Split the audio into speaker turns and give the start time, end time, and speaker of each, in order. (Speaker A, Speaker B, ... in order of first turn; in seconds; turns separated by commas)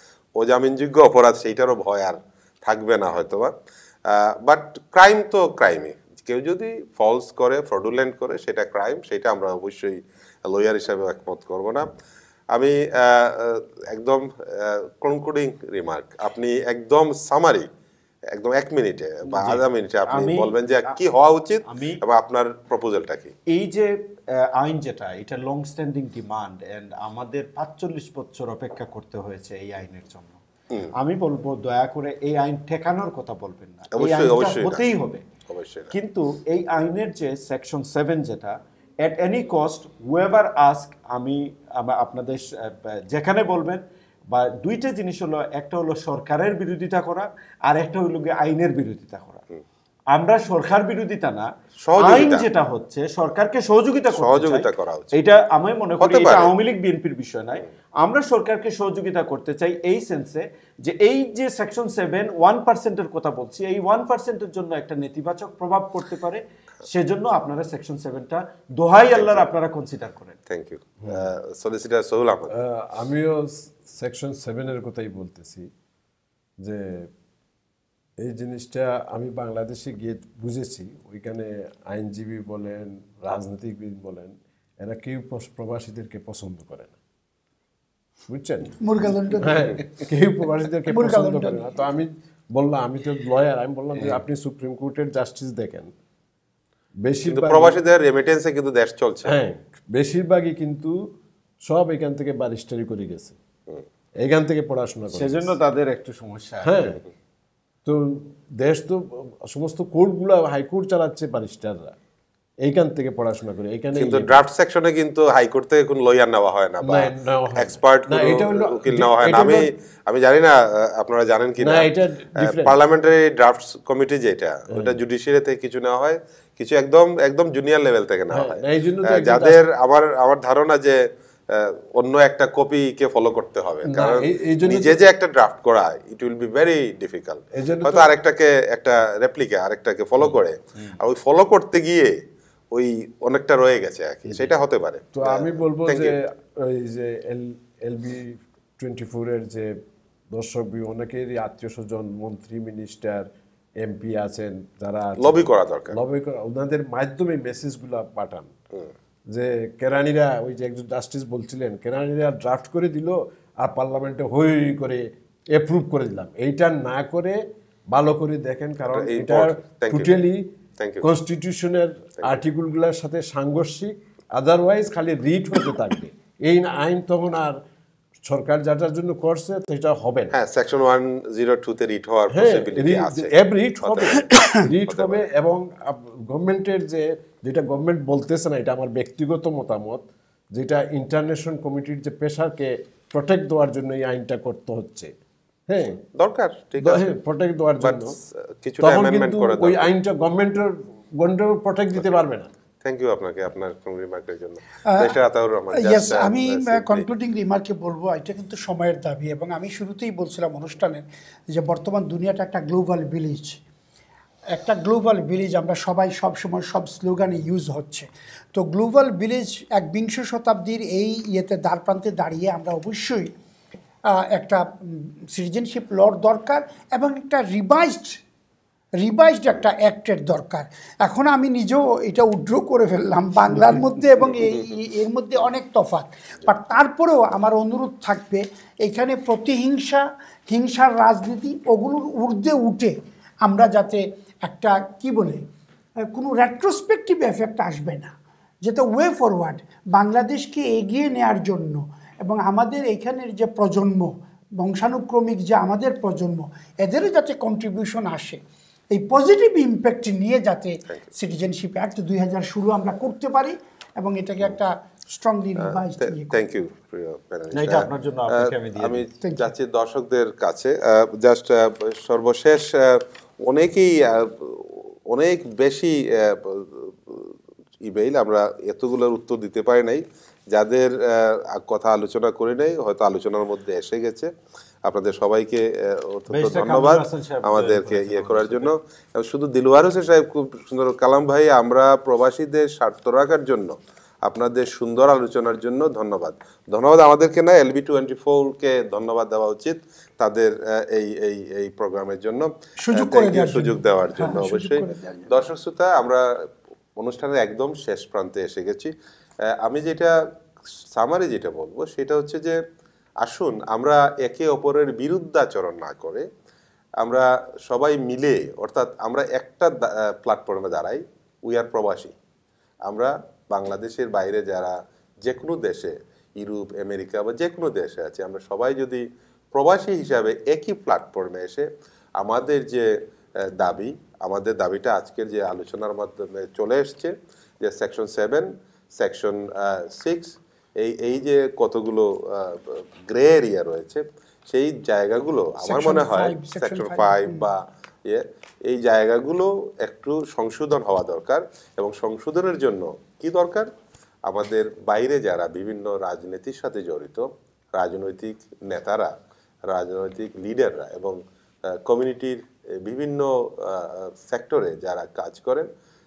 Speaker A: 0.3-3.5, Speaker A: 4.0-11.9, Speaker A: 12.5-17.7, Speaker A: 18.3-23.3, Speaker B: 19.3-20.9, Speaker B: 21.6-22.0, Speaker B: 23.5-30.4, Speaker B: 30.9-35.2, Speaker A: 34.0-34.8, Speaker A: 35.5-35.9, Speaker B: 35.9-43.8, Speaker B: 44.3-49.4, Speaker B: 50.1-70.4, Speaker A: 51.8-52.5, Speaker A: 54.1-55.1, Speaker A: 56.0-56.5, Speaker A: 69.1-69.5, Speaker A: 70.5-72.5, Speaker C: 72.5-75.7, Speaker C: 76.6-77.1, Speaker C: 78.2-87.0, Speaker C: 88.2-88.8, Speaker D: 88.8-89.8, Speaker C: 89.4-95.9, Speaker D: 90.9-91.9, Speaker C: 97.0-97.8, Speaker A: 97.3-99.3, Speaker C: 99.3-101.1, Speaker C: 101.6-103.4, Speaker C: 104.2-105.5, Speaker B: 105.1-106.7, Speaker C: 106.6-107.0, Speaker C: 107.8-111.9, Speaker C: 112.6-114.4, Speaker A: 113.9-142.2, Speaker C: 116.8-119.7, Speaker C: 121.6-122.7, Speaker C: 124.7-125.0, Speaker C: 128.3-129.6, Speaker C: 133.8-135.0, Speaker C: 137.5-138.1, Speaker B: 140.2-140.9, Speaker A: 142.7-146.1, Speaker C: 145.1-149.7, Speaker C: 150.3-153.3, Speaker C: 153.8-158.5, Speaker A: 155.2-156.0, Speaker C: 159.3-167.4, Speaker C: 167.9-170.4, Speaker A: 168.9-170.1, Speaker A: 170.8-171.1, Speaker C: 171.0-177.6, Speaker C: 178.2-180.3, Speaker A: 180.3-184.3, Speaker C: 182.3-195.1, Speaker A: 184.9-185.2, Speaker C: 195.7-196.0, Speaker A: 196.2-197.1, Speaker C: 196.8-198.2, Speaker A: 197.8-199.9, Speaker C: 198.8-202.5, Speaker A: 202.8-207.0, Speaker D: 204.8-205.1, Speaker D: 205.7-213.6, Speaker D: 214.5-223.3, Speaker D: 224.1-228.2, Speaker D: 229.0-245.4, Speaker D: 246.0-258.4, Speaker D: 258.9-266.4, Speaker A: 265.6-284.3, Speaker B: 267.5-269.1, Speaker D: 269.2-269.5, Speaker A: 284.8-308.9, Speaker B: 286.3-288.7, Speaker D: 302.8-305.4, Speaker A: 309.4-310.2, Speaker A: 310.9-312.6, Speaker A: 313.2-316.2, Speaker A: 317.0-322.1, Speaker A: 322.9-353.7, Speaker D: 345.6-347.4, Speaker A: 354.2-359.1, Speaker A: 359.7-361.2, Speaker A: 361.7-365.7